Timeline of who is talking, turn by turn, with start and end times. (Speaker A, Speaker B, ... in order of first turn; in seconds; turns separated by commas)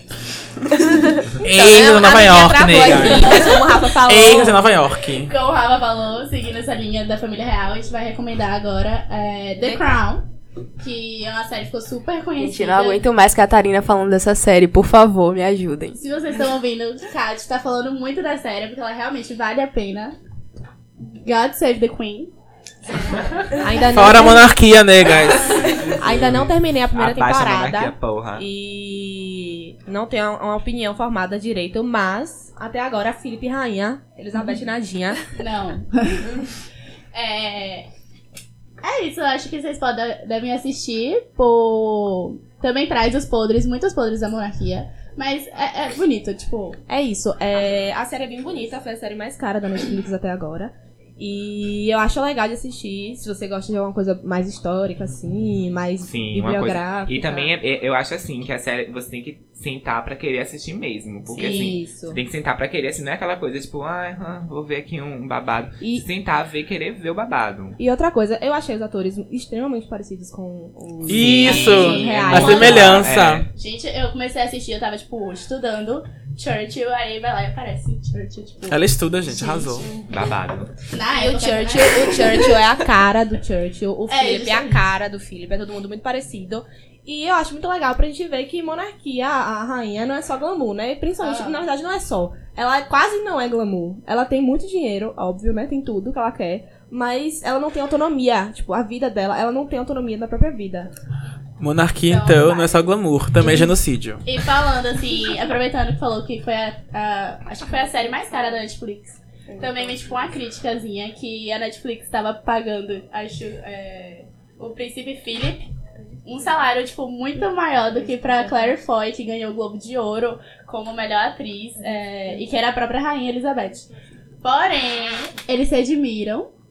Speaker A: 1.4-5.3, Speaker B: 1.4-4.6, Speaker C: 5.2-10.2, Speaker C: 10.8-13.0, Speaker D: 12.4-16.0, Speaker C: 15.9-20.1, Speaker C: 21.1-22.3, Speaker B: 23.6-24.5, Speaker A: 23.9-26.4, Speaker B: 25.8-35.2, Speaker E: 26.0-26.4, Speaker E: 26.9-28.4, Speaker C: 35.3-36.4, Speaker C: 37.1-37.9, Speaker C: 38.8-46.8, Speaker B: 46.9-57.5, Speaker E: 56.0-67.8, Speaker C: 61.3-61.8, Speaker B: 61.4-62.2, Speaker B: 67.8-73.1, Speaker A: 71.1-73.5, Speaker E: 71.1-73.5, Speaker C: 71.3-72.9, Speaker C: 73.5-79.9, Speaker A: 78.7-79.9, Speaker E: 80.1-80.7, Speaker C: 80.9-82.6, Speaker B: 81.1-100.9, Speaker C: 84.1-84.8, Speaker C: 91.2-91.6, Speaker A: 101.6-104.2, Speaker C: 102.1-102.8, Speaker B: 103.4-103.7, Speaker C: 104.2-115.7, Speaker C: 116.2-123.8, Speaker C: 124.4-126.5